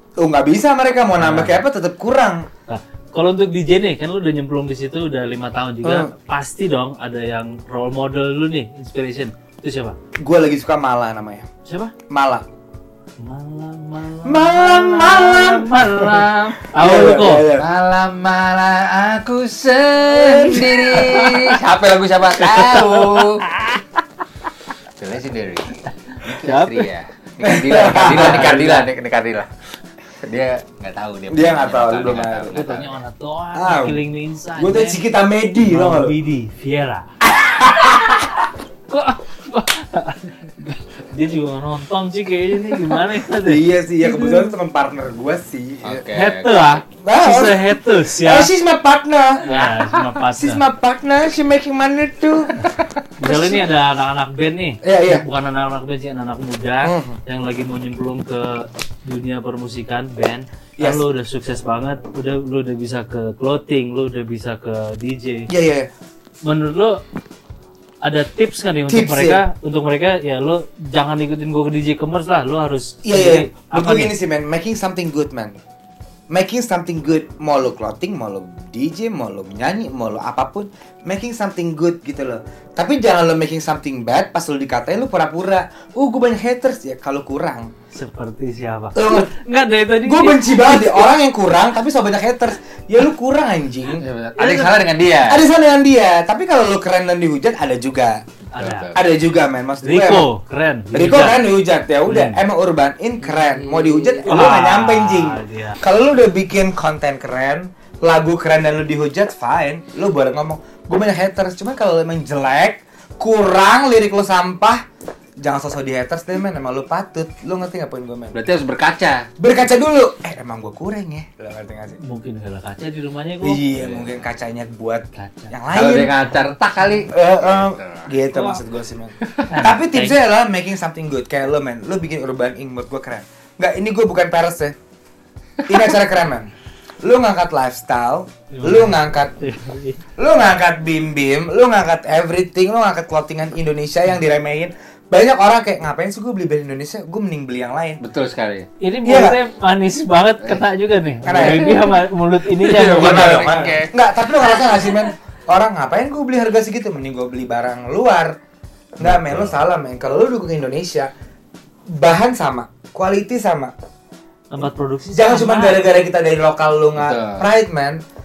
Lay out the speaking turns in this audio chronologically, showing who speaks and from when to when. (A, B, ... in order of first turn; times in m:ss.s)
0:00.2-0:02.5 A
0:01.2-0:01.6 B
0:02.7-0:10.0 B
0:05.8-0:06.1 A
0:10.2-0:11.5 A
0:11.6-0:11.9 B
0:12.1-0:12.4 A
0:13.2-0:17.5 B
0:14.2-0:17.7 A
0:17.5-0:23.4 C
0:20.5-0:21.6 B
0:22.4-0:23.8 B
0:25.0-0:29.5 C
0:26.1-0:26.8 B
0:27.4-0:28.7 A
0:28.0-0:28.9 B
0:30.2-0:33.0 C
0:31.3-0:32.6 A
0:32.5-0:35.0 B
0:33.5-0:34.0 A
0:34.6-0:36.2 A
0:35.6-0:37.1 B
0:37.2-0:38.3 A
0:38.9-0:44.5 B
0:43.3-0:46.0 A
0:45.8-0:46.8 C
0:46.1-0:48.5 B
0:46.9-0:49.5 A
0:49.4-0:50.6 B
0:49.5-0:50.2 C
0:50.3-0:53.7 A
0:53.2-1:05.5 B
0:54.8-0:55.2 A
0:56.8-0:57.2 A
1:00.8-1:01.0 A
1:05.5-1:05.9 A
1:06.4-1:07.0 B
1:08.0-1:14.1 B
1:08.9-1:09.4 A
1:13.0-1:15.6 A
1:16.3-1:27.7 A
1:27.9-1:31.1 B
1:29.0-1:29.3 A
1:30.0-1:38.2 A
1:33.9-1:35.4 C
1:38.5-1:39.0 B
1:38.6-1:39.0 C
1:38.9-1:40.3 A
1:39.8-1:41.4 B
1:40.9-1:54.8 A
1:42.0-1:42.4 B
1:43.3-1:44.2 C
1:44.2-1:45.8 B
1:55.4-1:58.4 A
1:58.3-1:59.3 C
1:59.4-2:02.0 A
2:02.0-2:03.6 B
2:03.4-2:06.1 A
2:03.8-2:04.1 C
2:05.1-2:05.5 B
2:05.7-2:08.1 C
2:07.1-2:14.7 A
2:08.3-2:08.6 B
2:09.2-2:09.5 C
2:09.5-2:10.2 B
2:15.6-2:16.5 A
2:17.0-2:19.5 A
2:18.5-2:20.0 B
2:20.2-2:28.0 A
2:28.0-2:28.7 C
2:28.8-2:33.7 B
2:29.0-2:29.4 A
2:31.2-2:31.8 A
2:31.3-2:31.9 C
2:32.6-2:33.9 C
2:32.8-2:38.4 A
2:39.0-2:41.1 A
2:39.0-2:39.6 C
2:41.9-2:43.7 A
2:44.5-2:45.8 B
2:45.1-2:48.0 A
2:47.0-2:47.4 C